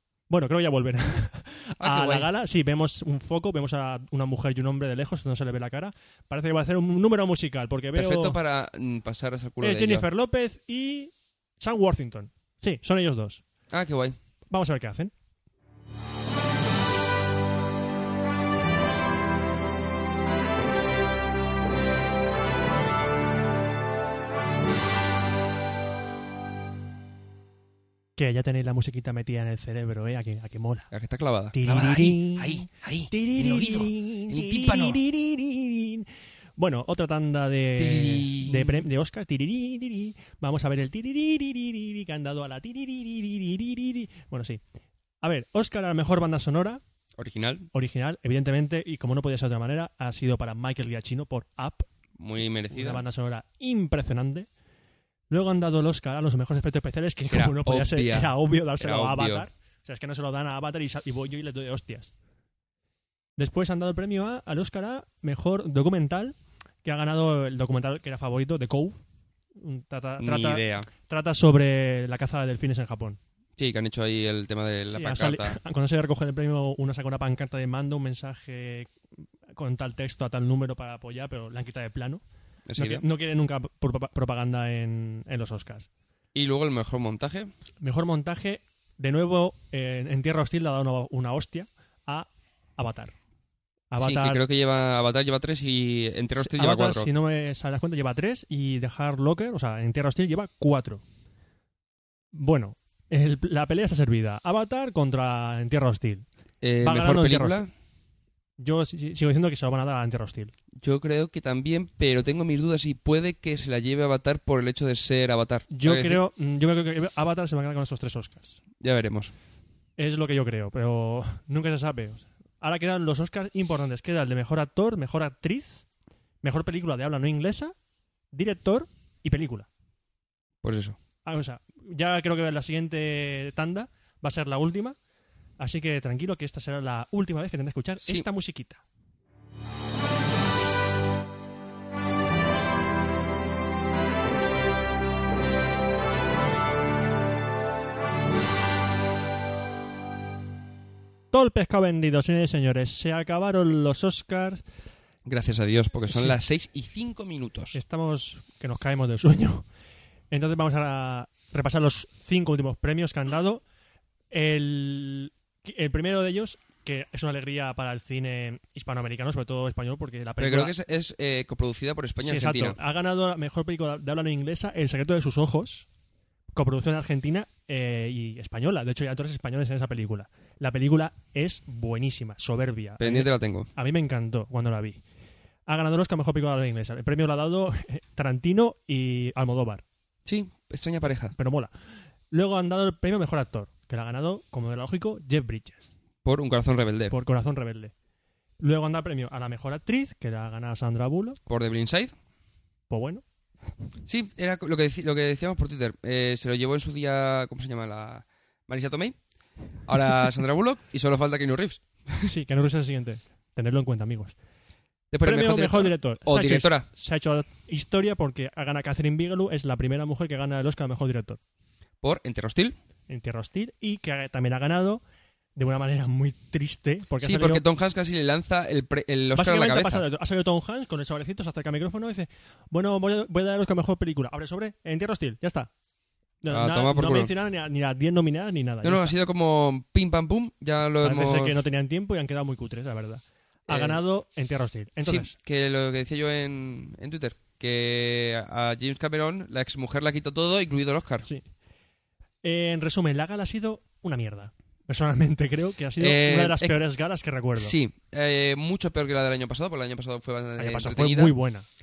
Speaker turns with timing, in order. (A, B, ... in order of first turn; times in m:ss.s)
0:00.3-0:08.4 A
0:01.8-0:02.3 B
0:07.9-0:10.1 B
0:09.6-0:13.4 A
0:13.7-0:14.2 B
0:14.5-0:15.1 A
0:28.2-0:30.9 A
0:30.9-0:35.0 B
0:31.5-0:44.6 A
0:37.8-0:38.8 B
0:45.2-0:46.8 A
0:47.2-0:47.7 B
0:47.7-0:51.8 A
0:52.2-0:53.0 B
0:52.7-0:54.5 A
0:55.3-1:02.1 A
0:57.3-0:59.5 B
1:03.4-1:09.0 A
1:09.6-1:13.2 A
1:10.2-1:10.9 B
1:13.6-1:15.6 B
1:14.9-1:18.9 A
1:19.5-1:22.2 A
1:22.6-1:23.0 B
1:22.8-1:25.9 A
1:26.3-1:27.5 B
1:27.8-1:33.1 A
1:33.9-1:34.4 A
1:34.0-1:37.1 B
1:36.3-1:41.0 A
1:42.3-1:46.2 A
1:46.6-1:47.7 B
1:46.8-1:47.6 A
1:48.6-1:50.5 A
1:50.8-1:56.2 B
1:55.7-1:58.6 A
1:58.8-1:59.3 B
2:00.0-2:05.8 A
2:06.4-2:07.7 A
2:08.3-2:09.7 A
2:10.6-2:11.0 B
2:11.2-2:15.0 A
2:15.6-2:18.8 A
2:31.3-2:34.6 A
2:35.2-2:37.8 B
2:36.1-2:36.4 A
2:37.7-2:39.7 A
2:40.3-2:43.6 A
2:44.3-2:50.7 A
2:50.4-2:52.8 B
2:52.2-2:55.8 A
2:56.6-3:05.0 A
3:03.0-3:03.7 B
3:05.7-3:09.8 A
3:10.2-3:11.4 B
3:11.4-3:11.7 A
3:12.3-3:15.9 A
3:16.2-3:17.2 B
3:17.1-3:17.9 A
3:18.6-3:21.4 A
3:21.4-3:22.1 B
3:22.9-3:23.2 A
3:24.1-3:29.2 B
3:29.8-3:32.3 B
3:32.2-3:34.4 A
3:35.1-3:36.9 B
3:35.2-3:41.4 A
3:42.0-3:42.8 B
3:43.1-3:45.0 A
3:45.6-3:47.6 A
3:47.2-3:50.0 B
3:49.3-3:55.7 A
3:56.4-3:59.1 A
3:56.5-3:57.3 B
3:58.8-4:01.6 B
4:01.0-4:05.3 A
4:03.7-4:04.0 B
4:05.0-4:11.3 B
4:12.4-4:17.7 A
4:16.0-4:16.8 B
4:17.6-4:21.3 B
4:20.6-4:21.6 A